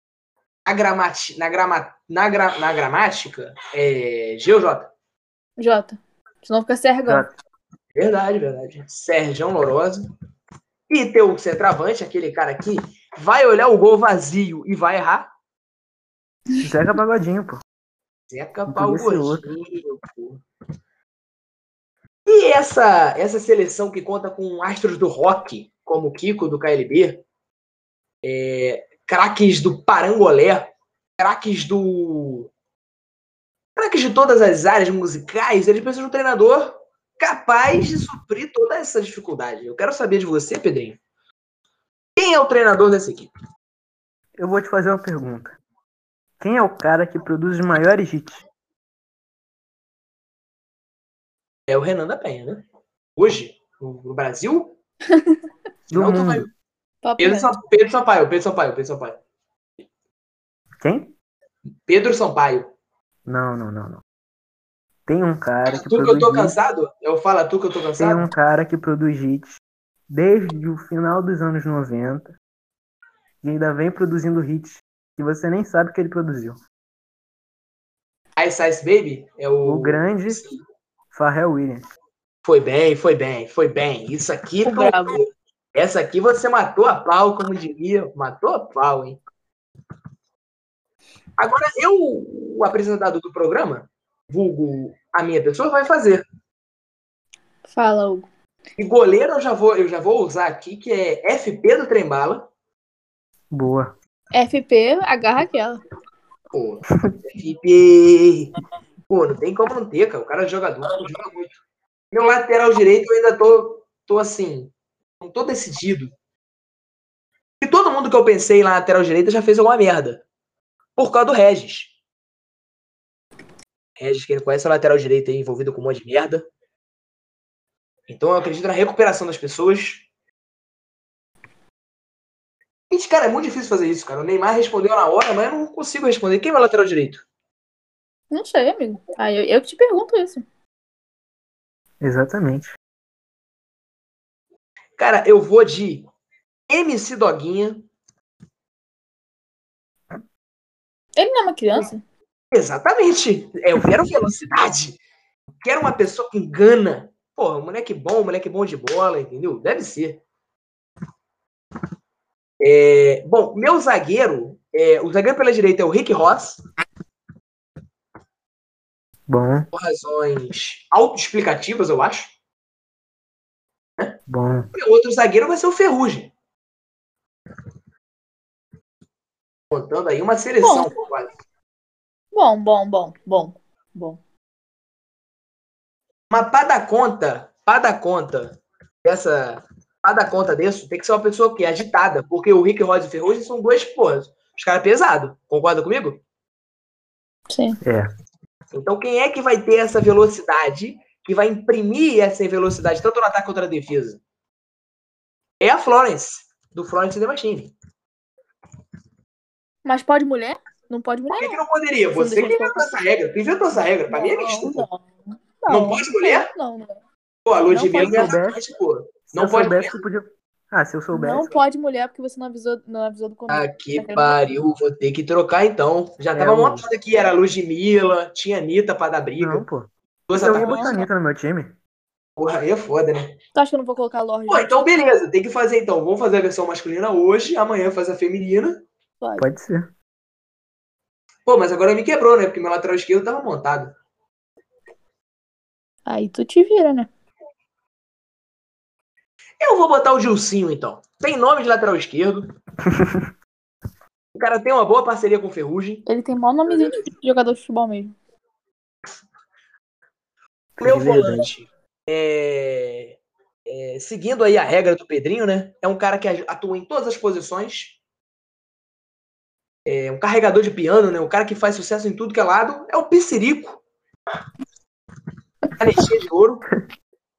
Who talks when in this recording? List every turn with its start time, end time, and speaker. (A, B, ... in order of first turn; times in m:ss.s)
0:00.6-0:04.9 A
0:05.6-0:07.2 B
0:07.0-0:07.3 C
0:08.0-0:10.0 A
0:10.9-0:15.3 A
0:16.6-0:17.6 C
0:18.3-0:20.4 A
0:18.7-0:19.5 C
0:22.2-0:27.2 A
0:28.2-0:32.5 A
0:33.8-0:41.0 A
0:42.2-0:43.3 A
0:44.4-0:45.6 C
0:46.4-0:48.4 C
0:51.7-0:52.6 A
0:53.2-0:54.8 A
0:55.9-0:56.5 C
0:55.9-0:56.5 A
0:57.0-0:57.5 B
0:57.2-0:59.2 A
1:00.8-1:01.1 C
1:01.9-1:02.7 A
1:03.2-1:04.0 C
1:05.1-1:06.6 C
1:05.7-1:08.3 A
1:08.0-1:12.4 C
1:13.4-1:16.6 C
1:18.4-1:20.6 A
1:19.6-1:20.4 C
1:21.1-1:21.9 C
1:22.4-1:29.2 A
1:24.6-1:25.2 B
1:31.4-1:36.2 A
1:37.6-1:38.3 B
1:38.8-1:42.5 A
1:43.5-1:44.0 C
1:44.3-1:45.8 B
1:46.5-1:48.5 A
1:49.1-1:51.6 A
1:52.1-1:56.1 A
1:57.6-2:00.2 A
2:01.0-2:01.9 A
2:04.0-2:06.5 A
2:08.1-2:10.0 A
2:12.9-2:17.2 A
2:18.3-2:20.4 B
2:22.0-2:22.7 C
2:25.0-2:26.1 A
2:26.7-2:27.9 A
2:31.2-2:32.0 B
2:32.5-2:35.0 A
2:35.6-2:40.2 A
2:42.6-2:46.6 A
2:49.3-2:49.7 C
2:49.7-2:52.3 A
2:54.3-2:54.7 C
2:54.7-2:56.3 A
2:59.7-3:01.3 A
3:00.6-3:00.9 B
3:02.3-3:04.2 B
3:06.3-3:16.2 A
3:17.5-3:17.8 B
3:17.8-3:18.1 C
3:18.7-3:24.2 A
3:25.6-3:27.7 A
3:29.8-3:31.6 B
3:31.4-3:34.9 A
3:32.1-3:32.9 B
3:34.1-3:35.0 B
3:35.6-3:37.0 B
3:35.7-3:36.5 A
3:37.5-3:40.0 A
3:37.7-3:38.3 B
3:37.8-3:38.6 C
3:39.3-3:41.6 C
3:41.1-3:44.4 B
3:43.5-3:49.6 A
3:46.3-3:46.9 C
3:49.4-3:51.8 C
3:50.3-3:51.0 A
3:50.5-3:51.1 B
3:52.4-3:53.4 A
3:53.5-3:54.8 B
3:54.5-3:58.8 A
3:59.2-3:59.5 B
3:59.4-3:59.9 C
4:01.5-4:04.0 A
4:06.0-4:07.1 B
4:09.6-4:12.5 A
4:12.9-4:13.3 C
4:14.4-4:16.0 A
4:16.1-4:18.1 B
4:16.6-4:17.1 A
4:20.8-4:21.5 C
4:20.8-4:28.0 A
4:29.9-4:33.8 A
4:35.8-4:36.6 A